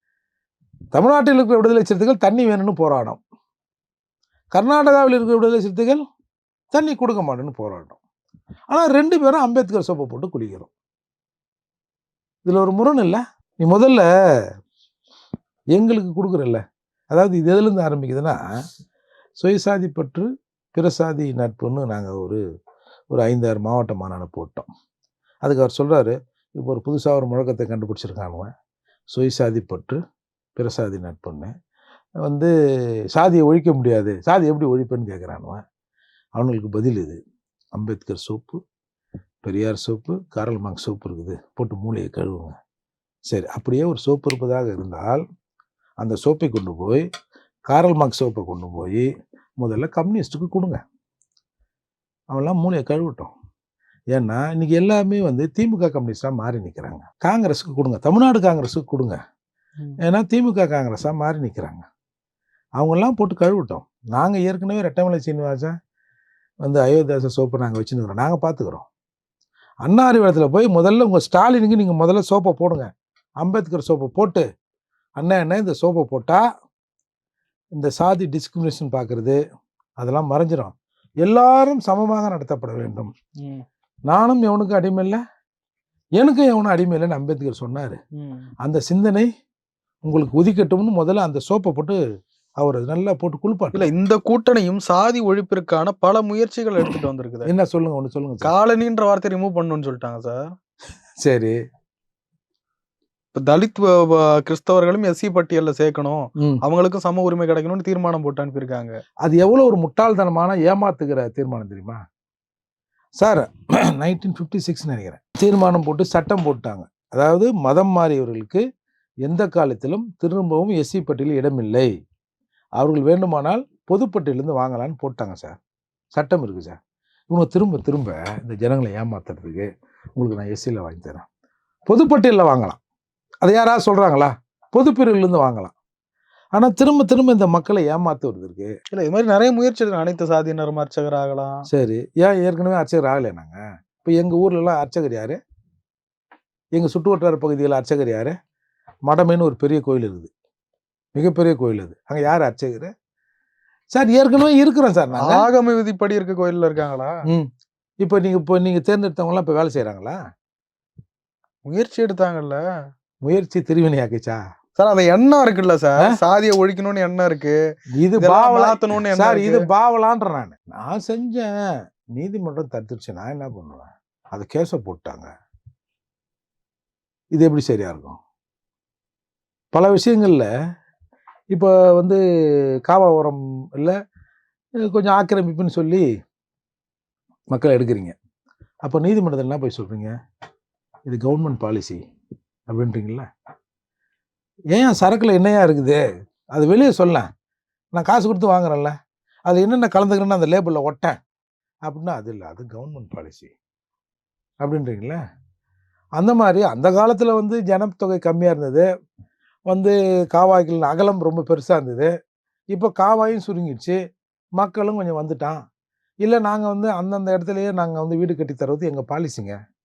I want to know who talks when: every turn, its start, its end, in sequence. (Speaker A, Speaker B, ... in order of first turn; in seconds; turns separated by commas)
Speaker A: 0.9-3.2, Speaker A: 4.5-6.0, Speaker A: 6.7-8.0, Speaker A: 8.7-10.7, Speaker A: 12.4-14.1, Speaker A: 15.8-18.4, Speaker A: 19.4-22.4, Speaker A: 23.1-24.7, Speaker A: 25.4-28.5, Speaker A: 29.1-30.0, Speaker A: 30.6-31.5, Speaker A: 32.2-32.5, Speaker A: 33.1-35.6, Speaker A: 36.4-37.2, Speaker A: 37.8-38.6, Speaker A: 39.4-42.6, Speaker A: 43.3-45.2, Speaker A: 46.0-47.1, Speaker A: 47.7-49.1, Speaker A: 49.6-50.8, Speaker A: 52.3-53.3, Speaker A: 54.1-59.2, Speaker A: 60.0-61.9, Speaker A: 62.8-65.8, Speaker A: 66.6-68.9, Speaker A: 69.8-72.9, Speaker A: 73.4-74.5, Speaker A: 75.2-76.4, Speaker A: 77.8-79.4, Speaker A: 80.0-83.1, Speaker B: 83.4-83.6, Speaker A: 84.1-85.2, Speaker A: 86.2-88.0, Speaker B: 88.2-88.5, Speaker A: 88.6-89.3, Speaker A: 90.0-92.0, Speaker A: 92.6-93.9, Speaker B: 93.7-97.5, Speaker A: 97.5-98.5, Speaker B: 98.4-100.5, Speaker A: 101.2-101.6, Speaker B: 103.3-109.0, Speaker A: 109.2-112.0, Speaker A: 113.2-118.6, Speaker A: 119.2-121.9, Speaker A: 122.8-125.6, Speaker A: 126.1-126.8, Speaker A: 127.3-131.2, Speaker A: 131.9-132.8, Speaker A: 133.4-135.7, Speaker A: 136.5-138.8, Speaker B: 138.9-141.7, Speaker A: 141.7-145.4, Speaker A: 146.7-148.3, Speaker A: 149.1-150.3, Speaker A: 151.2-152.9, Speaker A: 153.9-155.5, Speaker B: 155.2-157.2, Speaker A: 158.0-160.2, Speaker B: 161.7-162.6, Speaker A: 163.2-164.4, Speaker B: 164.8-167.6, Speaker A: 167.9-171.6, Speaker B: 168.2-169.7, Speaker A: 172.2-175.3, Speaker A: 177.3-178.2, Speaker A: 179.7-180.5, Speaker A: 181.5-182.2, Speaker A: 182.9-184.0, Speaker A: 184.9-186.1, Speaker A: 187.5-188.1, Speaker A: 188.8-190.1, Speaker A: 191.1-192.0, Speaker A: 192.7-193.3, Speaker A: 194.7-196.0, Speaker A: 196.6-197.3, Speaker A: 197.9-199.0, Speaker A: 199.5-201.2, Speaker A: 201.9-203.5, Speaker A: 204.6-205.2, Speaker A: 206.2-208.9, Speaker A: 209.7-212.1, Speaker A: 212.7-214.0, Speaker A: 214.6-215.6, Speaker A: 216.2-219.6